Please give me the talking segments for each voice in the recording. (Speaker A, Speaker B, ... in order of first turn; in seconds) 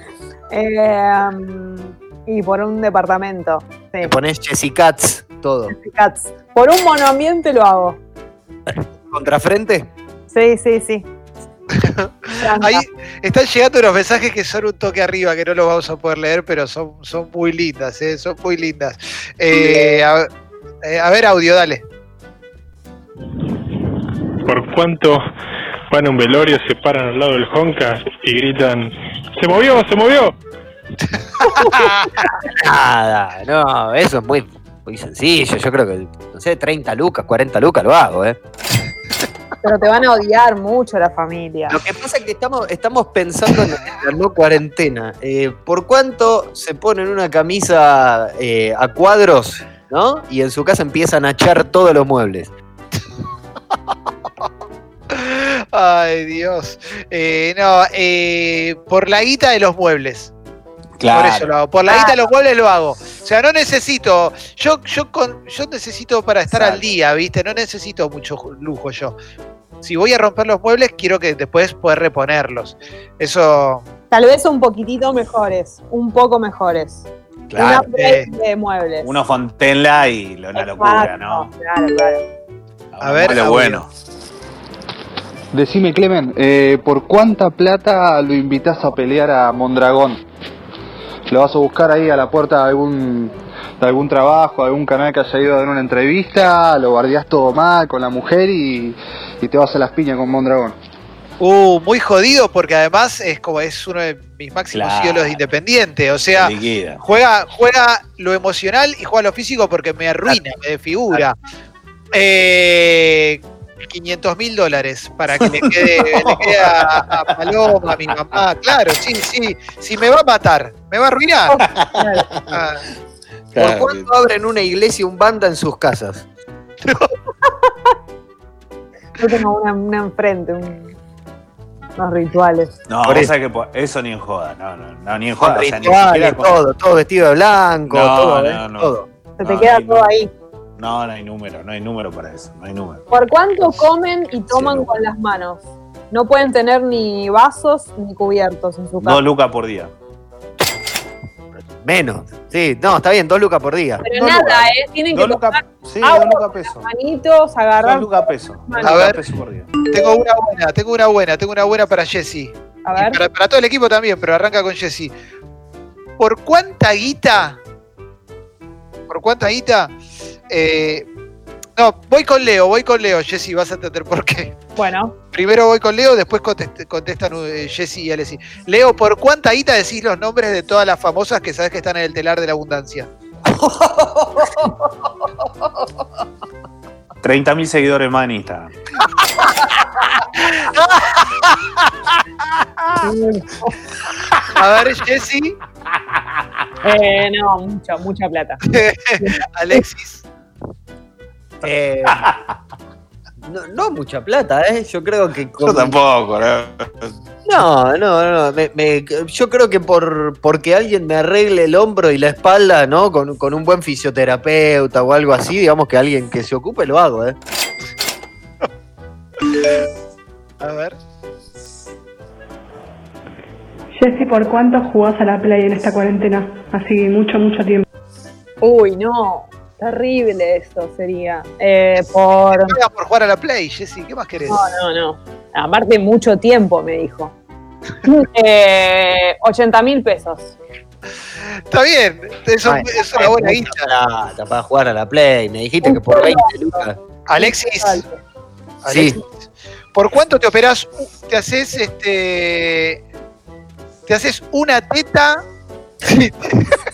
Speaker A: 0.5-4.1, 5.7-8.0, 10.3-11.1, 12.4-12.8, 39.6-41.8, 74.1-79.1, 80.5-82.2, 121.5-122.3, 129.2-130.9, 132.0-132.7, 139.4-140.3, 143.1-149.2, 154.0-159.0, 162.8-163.2, 174.8-175.1, 193.0-193.8, 196.8-198.6, 199.2-199.8, 228.6-232.7, 234.5-237.3, 238.0-240.5, 245.8-246.7, 247.4-248.1
Speaker B: 4.0-5.7, 8.7-9.9, 32.4-38.4, 41.7-52.5, 123.5-126.2, 133.0-133.3, 135.4-139.0, 151.8-154.0, 183.5-184.7, 201.6-202.3, 203.4-206.0, 207.4-217.4, 242.6-247.0, 248.9-249.2
Speaker C: 11.8-20.3, 20.8-21.8, 31.4-32.2, 55.1-60.3, 61.1-69.1, 69.8-73.8, 77.9-78.3, 83.0-83.8, 101.4-106.5, 107.0-111.3, 112.1-121.6, 122.5-122.8, 126.8-127.1, 158.8-159.2, 159.9-165.1, 166.2-167.6, 169.1-169.9, 170.5-171.1, 171.8-174.6, 175.3-183.1, 190.4-191.5, 194.5-195.6, 198.7-200.2, 220.6-220.9, 232.6-234.6, 241.7-243.8, 247.3-248.0, 248.8-249.3, 249.9-253.0, 254.1-255.4, 256.0-256.8
Speaker D: 24.4-25.2, 25.9-30.3
Speaker E: 61.0-61.5, 66.5-66.9, 77.5-77.9, 79.0-81.5, 82.9-83.9, 104.7-105.4, 106.3-107.0, 115.6-117.1, 121.7-122.4, 123.5-124.1, 132.9-136.6, 137.9-140.1, 140.8-143.0, 144.5-144.9, 149.0-149.9, 154.1-156.9, 157.8-159.7, 187.2-188.7, 192.6-192.9, 196.2-196.4, 202.1-202.5, 205.6-207.1
Speaker F: 85.5-90.2, 91.3-100.7
Speaker G: 223.9-227.8